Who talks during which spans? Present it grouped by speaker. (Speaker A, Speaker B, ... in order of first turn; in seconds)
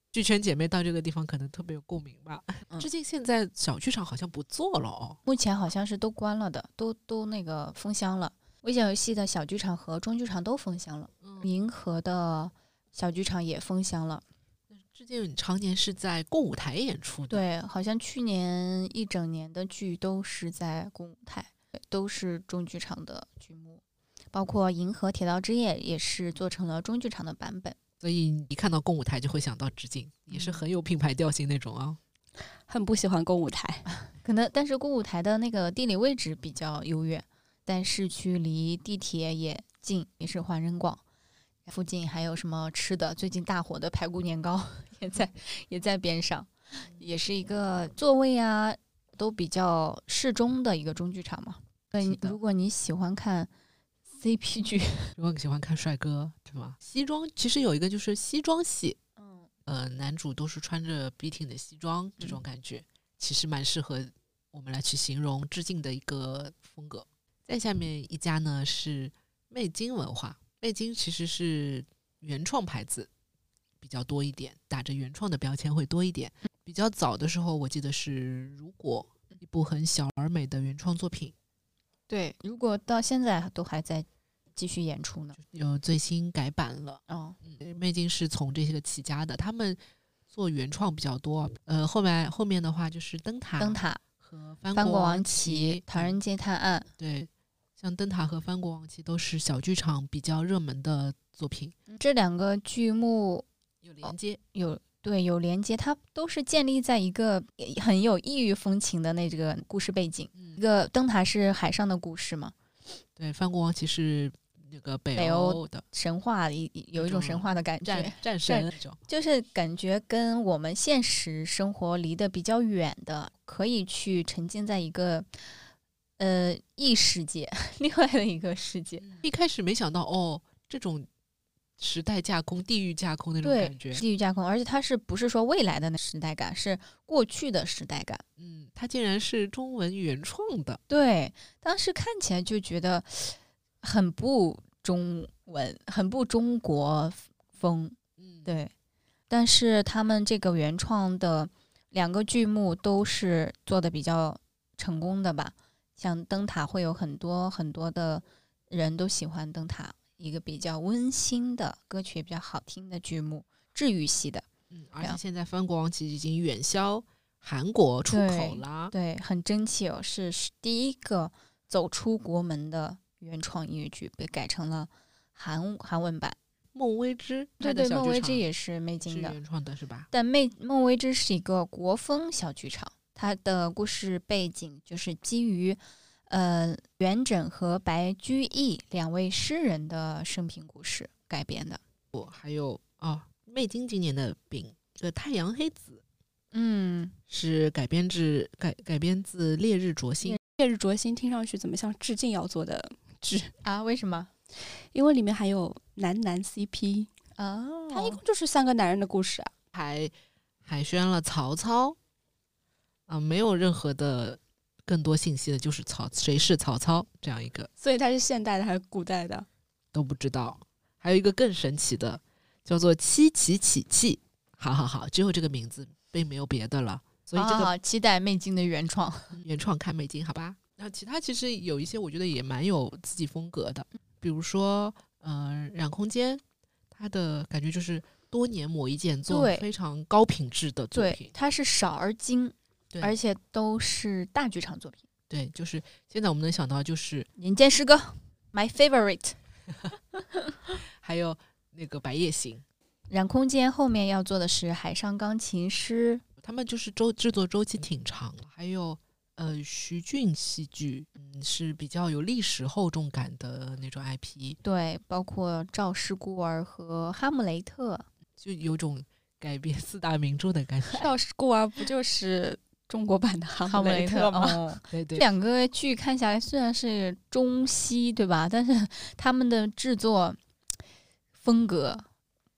Speaker A: 0.1-5.2, 11.2-11.5, 14.7-17.4, 28.0-32.0, 52.0-52.4, 55.1-59.0, 59.6-73.1, 73.8-81.3, 85.4-96.2, 97.0-101.8, 103.8-104.4, 113.2-115.8, 117.0-119.0, 129.0-131.1, 131.8-134.0, 138.4-140.8, 148.2-148.5, 164.7-168.9, 176.7-178.4, 179.0-180.1, 192.1-196.0, 197.3-200.4, 209.7-210.1, 210.6-211.9, 213.1-217.7, 219.9-227.7, 229.3-241.3, 245.3-247.3, 251.0-252.6, 256.4-264.6, 268.4-271.1, 274.9-275.2
Speaker B: 5.2-14.2, 17.3-23.8, 24.3-27.8, 30.3-30.6, 34.1-41.0, 41.6-53.5, 54.1-55.1, 59.2-59.5, 82.1-85.4, 87.1-87.4, 93.6-94.0, 94.7-96.9, 101.9-103.5, 104.0-112.5, 115.1-125.3, 126.2-129.1, 133.4-138.2, 140.9-148.7, 149.3-164.4, 168.1-176.4, 177.6-179.4, 180.1-191.8, 196.5-197.2, 203.6-204.3, 207.4-208.2, 227.3-229.4, 239.3-239.7, 240.9-245.1, 247.4-249.4, 250.1-250.5, 253.1-256.2, 264.6-268.1, 273.7-280.4, 281.4-282.0
Speaker C: 32.7-33.9, 200.5-203.5, 204.9-207.1, 207.9-209.5, 217.8-219.4, 270.9-274.6